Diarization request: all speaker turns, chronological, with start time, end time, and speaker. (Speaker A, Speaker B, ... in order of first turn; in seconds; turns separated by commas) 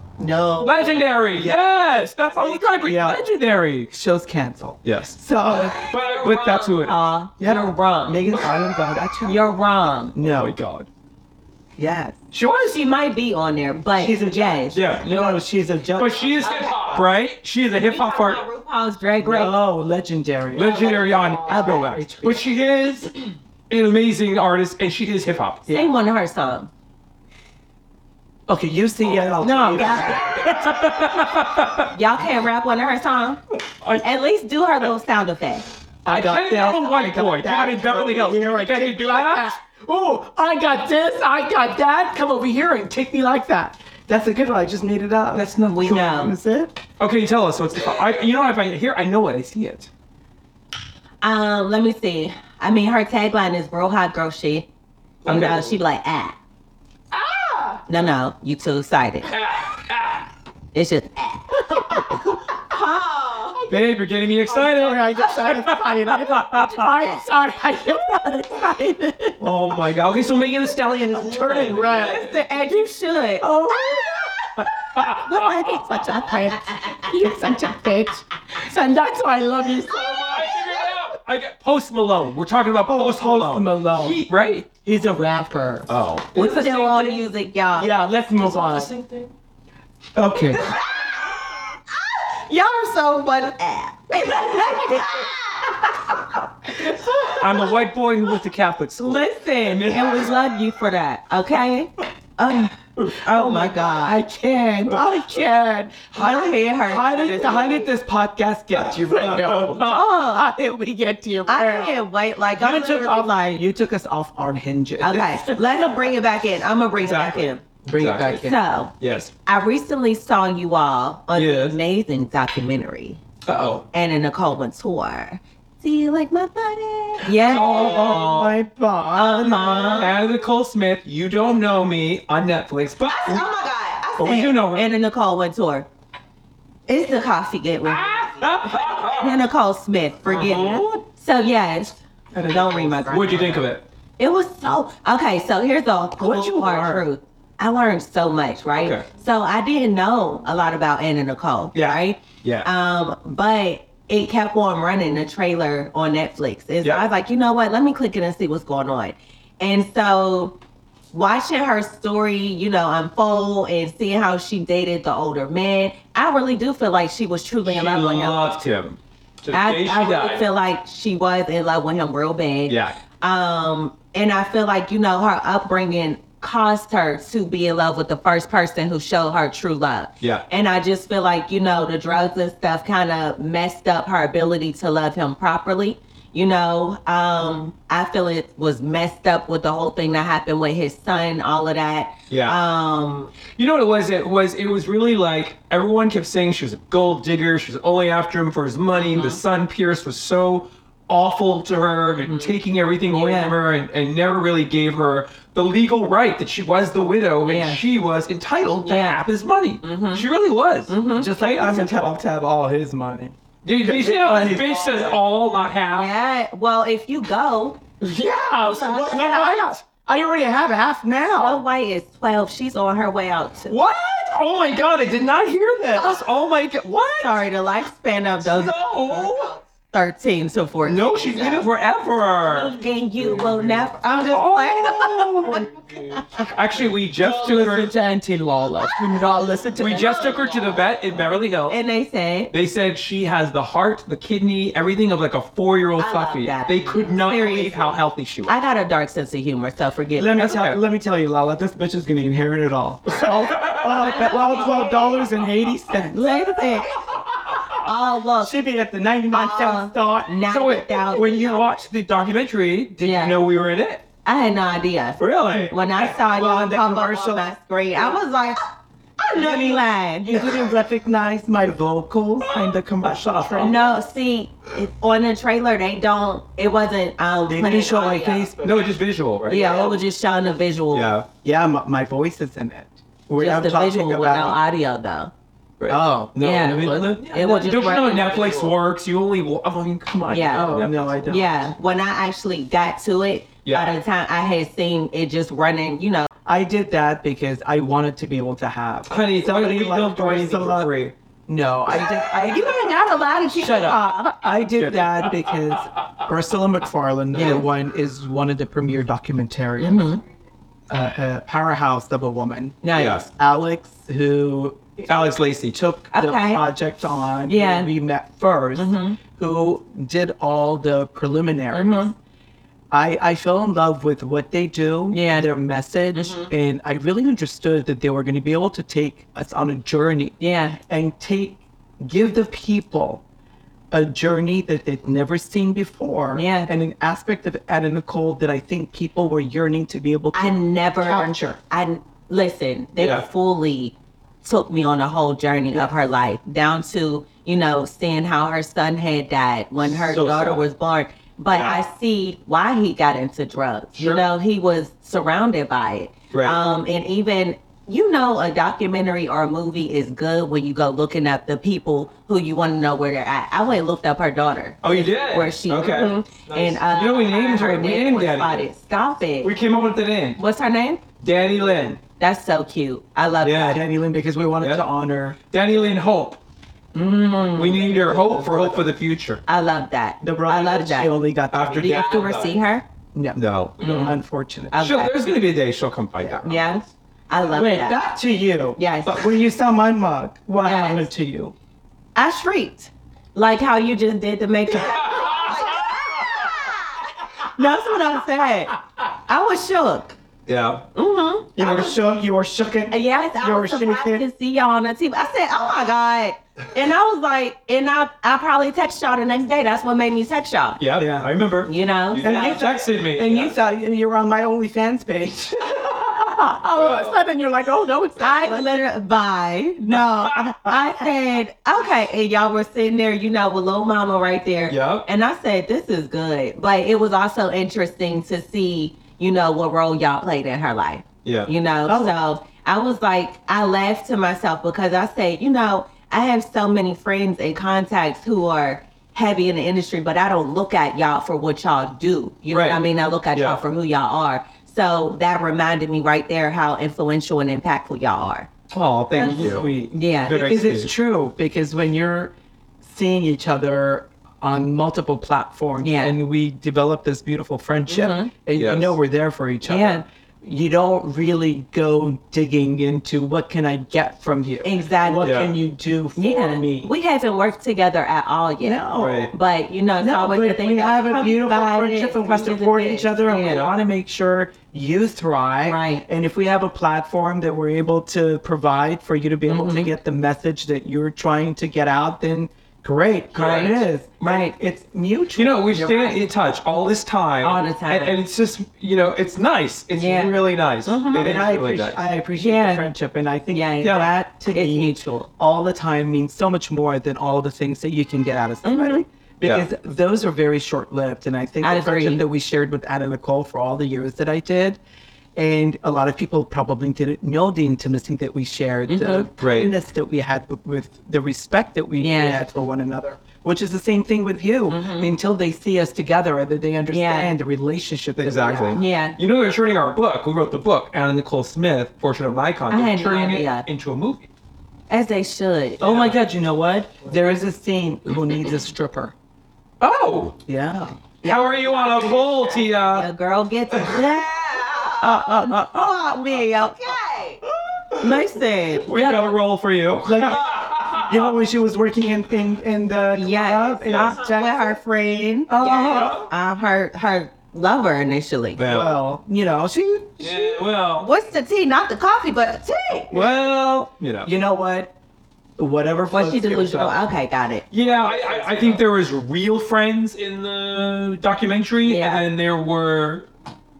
Speaker A: 0.2-0.8, Speaker B: 0.6-3.9, Speaker A: 1.3-1.6, Speaker A: 2.6-3.2, Speaker A: 3.9-6.7, Speaker B: 4.8-7.0, Speaker C: 6.2-8.3, Speaker A: 7.4-9.4, Speaker C: 9.3-10.2, Speaker A: 10.2-10.6, Speaker B: 10.2-10.9, Speaker A: 11.8-12.1, Speaker B: 12.3-12.8, Speaker C: 12.6-14.8, Speaker A: 14.0-16.6, Speaker B: 14.7-15.2, Speaker B: 16.0-18.4, Speaker C: 16.4-17.0, Speaker C: 17.8-19.6, Speaker A: 19.2-22.5, Speaker B: 20.5-25.7, Speaker C: 21.1-21.8, Speaker C: 25.7-26.7, Speaker A: 28.5-30.7, Speaker C: 29.4-30.2, Speaker B: 30.2-31.9, Speaker C: 31.9-33.4, Speaker C: 34.0-35.7, Speaker A: 36.0-46.7, Speaker B: 36.1-39.5, Speaker C: 45.4-46.4, Speaker B: 47.0-49.9, Speaker C: 51.2-54.7, Speaker B: 55.2-55.7, Speaker C: 55.2-56.4, Speaker A: 57.1-57.8, Speaker C: 57.9-59.3, Speaker B: 59.2-60.3, Speaker C: 60.7-63.6, Speaker A: 61.7-62.4, Speaker B: 63.7-67.0, Speaker A: 64.5-69.4, Speaker B: 69.4-72.3, Speaker A: 71.2-72.3, Speaker C: 71.8-74.0, Speaker A: 73.4-80.6, Speaker B: 75.0-75.8, Speaker C: 75.2-77.3, Speaker B: 79.9-84.7, Speaker A: 82.8-84.2, Speaker A: 84.8-85.9, Speaker B: 85.9-87.2, Speaker C: 86.3-87.9, Speaker A: 87.8-88.9, Speaker B: 88.6-89.3, Speaker A: 90.2-90.7, Speaker C: 91.9-96.2, Speaker A: 94.5-95.1, Speaker B: 97.3-100.5, Speaker C: 99.0-104.2, Speaker A: 103.3-112.0, Speaker C: 106.1-107.9, Speaker B: 108.8-109.8, Speaker C: 109.8-110.4, Speaker C: 111.5-113.6, Speaker A: 112.5-115.7, Speaker C: 115.0-117.6, Speaker B: 117.0-119.3, Speaker A: 117.8-118.6, Speaker C: 118.4-118.9, Speaker C: 119.5-123.2, Speaker B: 121.3-121.8, Speaker B: 123.5-123.9, Speaker C: 123.9-128.3, Speaker B: 127.3-128.6, Speaker A: 127.5-130.1, Speaker C: 129.2-130.2, Speaker B: 130.0-133.5, Speaker C: 133.0-135.9, Speaker B: 134.2-134.9, Speaker C: 136.9-138.5, Speaker B: 137.9-139.4, Speaker C: 139.0-143.6, Speaker B: 140.3-141.0, Speaker A: 142.3-143.6, Speaker B: 143.1-143.8, Speaker C: 144.2-160.6, Speaker B: 146.2-147.0, Speaker B: 148.8-149.1, Speaker B: 151.7-152.7, Speaker C: 161.1-168.4, Speaker B: 167.7-170.4, Speaker C: 169.5-193.3, Speaker B: 172.7-172.9, Speaker B: 192.3-192.6, Speaker B: 193.6-212.1, Speaker C: 199.0-199.4, Speaker C: 202.2-202.5, Speaker C: 203.1-203.6, Speaker C: 207.4-207.8, Speaker C: 208.9-209.2, Speaker C: 209.8-210.3, Speaker C: 210.9-211.3, Speaker A: 211.2-215.1, Speaker B: 213.6-216.1, Speaker C: 215.9-217.8, Speaker A: 218.0-221.6, Speaker C: 218.7-219.1, Speaker B: 218.8-219.8, Speaker C: 221.4-223.8, Speaker B: 223.7-227.5, Speaker C: 227.2-231.7, Speaker B: 228.4-229.6, Speaker B: 230.8-233.8, Speaker C: 232.5-235.7, Speaker B: 234.3-237.9, Speaker A: 234.9-235.7, Speaker A: 237.2-240.3, Speaker B: 239.8-241.8, Speaker C: 239.9-240.6, Speaker C: 241.7-242.5, Speaker B: 242.5-248.5, Speaker C: 246.0-250.4, Speaker A: 250.2-256.3, Speaker B: 250.4-250.8, Speaker B: 253.5-253.9, Speaker C: 253.8-255.3, Speaker C: 256.1-258.6, Speaker A: 258.4-260.4, Speaker C: 259.3-261.6, Speaker B: 260.5-264.0, Speaker C: 263.0-263.4, Speaker C: 264.2-268.6, Speaker B: 265.2-266.1, Speaker A: 266.3-267.5, Speaker C: 269.2-270.5, Speaker A: 269.3-273.8, Speaker B: 272.5-273.8, Speaker C: 273.6-278.5, Speaker A: 277.5-279.0, Speaker B: 278.6-280.0, Speaker C: 279.5-281.1, Speaker B: 280.9-281.3, Speaker A: 281.4-284.6, Speaker C: 283.4-285.3, Speaker B: 285.8-291.3, Speaker A: 285.9-287.2, Speaker C: 286.4-288.7, Speaker C: 290.3-296.3, Speaker A: 290.5-291.6, Speaker B: 293.6-294.0, Speaker A: 296.5-310.1, Speaker B: 299.1-301.1, Speaker C: 302.4-304.3, Speaker B: 304.8-305.4, Speaker C: 307.3-307.7, Speaker C: 309.8-310.2, Speaker A: 310.9-322.1, Speaker C: 312.8-313.2, Speaker B: 312.9-313.3, Speaker B: 315.1-315.8, Speaker C: 316.1-316.6, Speaker C: 317.5-317.9, Speaker C: 318.8-319.2, Speaker C: 321.7-322.1, Speaker A: 322.9-330.4, Speaker C: 325.1-325.5, Speaker C: 326.1-326.5, Speaker C: 330.4-330.8, Speaker A: 330.9-333.2, Speaker A: 333.9-341.6, Speaker C: 336.3-336.7, Speaker C: 340.3-369.5, Speaker B: 343.0-343.3, Speaker B: 349.9-350.6, Speaker B: 351.5-351.8, Speaker B: 354.0-354.2, Speaker B: 356.3-356.6, Speaker B: 364.8-368.7, Speaker B: 369.4-370.4, Speaker C: 370.4-371.0, Speaker B: 371.2-372.0, Speaker C: 372.2-373.8, Speaker B: 373.4-373.8, Speaker A: 373.7-375.4, Speaker B: 374.6-374.9, Speaker B: 375.5-376.4, Speaker C: 376.9-377.9, Speaker B: 377.5-379.4, Speaker A: 377.8-378.8, Speaker C: 379.5-381.1, Speaker A: 380.2-382.2, Speaker B: 381.5-382.6, Speaker C: 381.7-382.9, Speaker A: 383.1-384.7, Speaker B: 383.4-384.1, Speaker C: 383.8-384.1, Speaker C: 384.7-385.1, Speaker B: 384.7-386.8, Speaker C: 386.4-388.0, Speaker A: 387.5-391.5, Speaker C: 388.8-389.3, Speaker C: 390.6-391.1, Speaker C: 392.1-400.2, Speaker B: 394.8-396.2, Speaker B: 400.5-400.9, Speaker C: 400.9-401.9, Speaker A: 401.6-404.2, Speaker C: 402.9-410.8, Speaker B: 410.8-413.6, Speaker A: 411.0-411.3, Speaker C: 411.7-412.6, Speaker A: 412.2-418.7, Speaker B: 416.8-417.2, Speaker C: 418.2-448.5, Speaker A: 420.0-420.9, Speaker B: 424.7-425.1, Speaker B: 431.2-431.5, Speaker A: 431.9-432.1, Speaker B: 442.5-443.6, Speaker B: 448.7-450.9, Speaker C: 449.2-450.6, Speaker A: 449.2-449.7, Speaker A: 450.3-466.9, Speaker C: 455.8-456.1, Speaker C: 457.9-458.3, Speaker B: 458.6-458.9, Speaker C: 459.7-460.0, Speaker C: 464.6-465.4, Speaker B: 465.2-465.6, Speaker C: 466.2-473.7, Speaker A: 468.6-469.3, Speaker B: 468.9-469.3, Speaker A: 470.0-486.2, Speaker C: 475.7-476.1, Speaker C: 479.5-479.9, Speaker B: 483.3-483.8, Speaker C: 483.4-484.6, Speaker B: 485.4-492.0, Speaker C: 487.4-488.1, Speaker C: 490.0-491.3, Speaker A: 491.1-504.8, Speaker C: 492.4-492.9, Speaker C: 493.5-495.3, Speaker B: 493.8-494.1, Speaker C: 498.6-499.0, Speaker C: 501.6-502.2, Speaker A: 505.4-518.8, Speaker C: 508.9-509.3, Speaker B: 509.4-509.7, Speaker C: 512.0-512.4, Speaker C: 514.7-515.1, Speaker C: 516.9-517.3, Speaker B: 518.2-524.3, Speaker C: 518.7-519.2, Speaker C: 522.7-523.7, Speaker C: 524.9-525.8, Speaker A: 525.8-529.1, Speaker B: 529.8-530.4, Speaker A: 530.5-531.0, Speaker B: 531.2-533.1, Speaker C: 531.2-537.4, Speaker A: 535.0-535.6, Speaker C: 538.0-539.4, Speaker B: 538.8-541.2, Speaker A: 540.0-544.8, Speaker C: 543.1-548.6, Speaker B: 543.9-544.2, Speaker A: 545.5-546.3, Speaker B: 545.7-546.2, Speaker B: 548.6-549.0, Speaker A: 548.7-550.6, Speaker B: 550.2-551.1, Speaker C: 551.0-553.1, Speaker B: 553.1-554.3, Speaker A: 554.2-554.9, Speaker A: 555.6-557.0, Speaker C: 556.1-557.7, Speaker B: 557.7-563.3, Speaker A: 558.3-558.8, Speaker C: 561.8-562.2